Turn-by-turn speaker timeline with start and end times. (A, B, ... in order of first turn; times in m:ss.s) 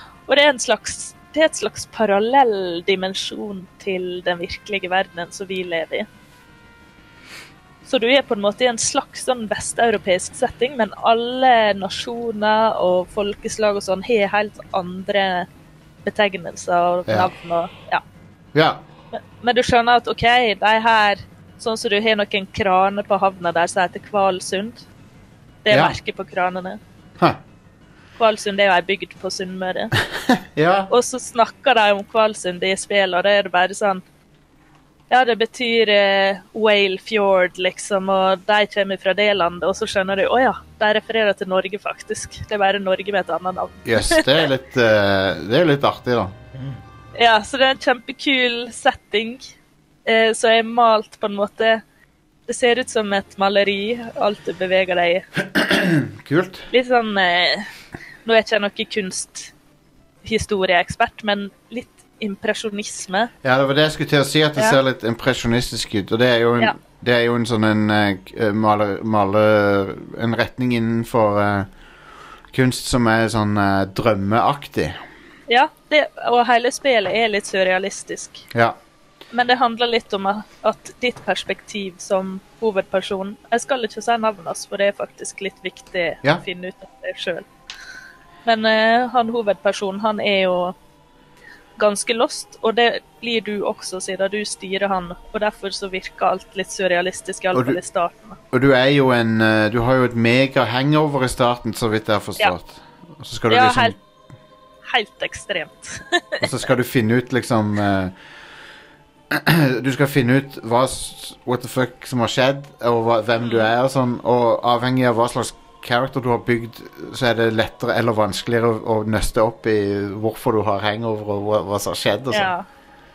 0:00.3-0:06.1 A
0:07.8-0:15.5 A
0:16.0-0:18.0 A
0:17.1-0:17.3 B
0:18.5-0:18.8 B
0:19.1-0:24.8 A
0:25.6-0:26.8 A
0:25.7-0:26.0 B
0:28.2-0:29.9 A
0:30.5-0:30.9 B
0:30.9-0:34.0 A
0:35.1-0:44.4 A
0:43.8-0:46.3 B
0:47.2-0:49.5 A
0:50.0-0:51.8 A
0:52.5-0:55.2 A
0:55.6-0:56.6 B
0:56.7-0:57.7 A
0:58.2-0:59.5 A
1:00.2-1:03.3 A
1:03.4-1:11.7 B
1:12.5-1:15.0 B
1:15.5-1:18.4 A
1:19.3-1:27.5 A
1:28.4-1:30.8 A
1:31.8-1:38.4 A
1:37.5-1:37.8 B
1:38.5-1:44.0 B
1:43.5-1:44.0 A
1:44.8-1:46.5 A
1:46.4-1:48.1 B
1:49.3-2:02.5 B
1:53.4-1:53.7 A
2:02.3-2:02.6 A